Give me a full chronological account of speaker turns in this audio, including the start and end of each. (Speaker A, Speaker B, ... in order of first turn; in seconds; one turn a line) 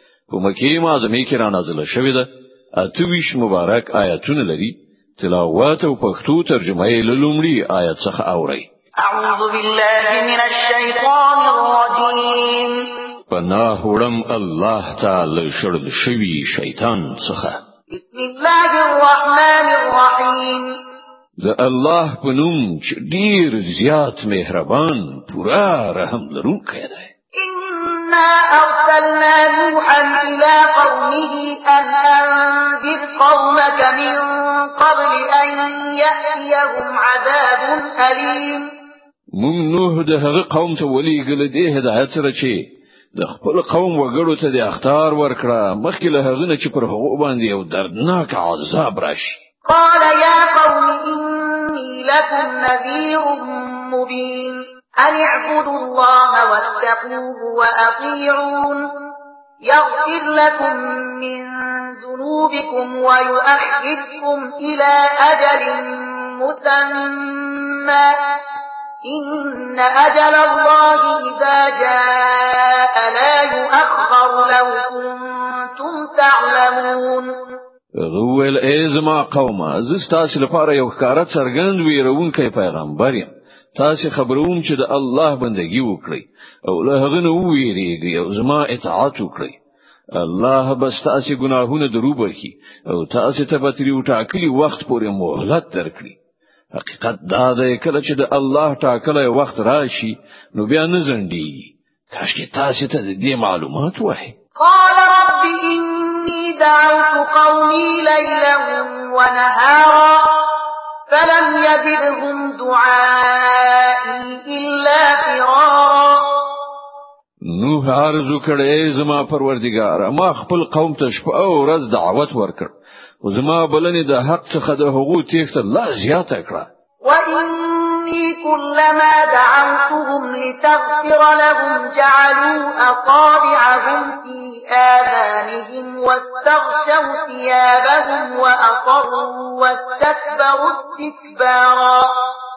Speaker A: 0.3-8.7
Speaker B: 9.0-13.0
Speaker A: 13.3-17.6
Speaker B: 17.9-20.8
Speaker A: 21.4-27.1
Speaker B: 27.4-38.7
Speaker A: 39.4-42.6
Speaker A: 43.1-49.4
Speaker B: 49.7-58.9
Speaker B: 59.6-68.4
Speaker B: 69.0-77.6
Speaker A: 78.0-89.5
Speaker A: 90.2-96.2
Speaker A: 96.7-104.3
Speaker B: 104.6-116.6
Speaker A: 117.5-126.7
Speaker B: 127.0-142.2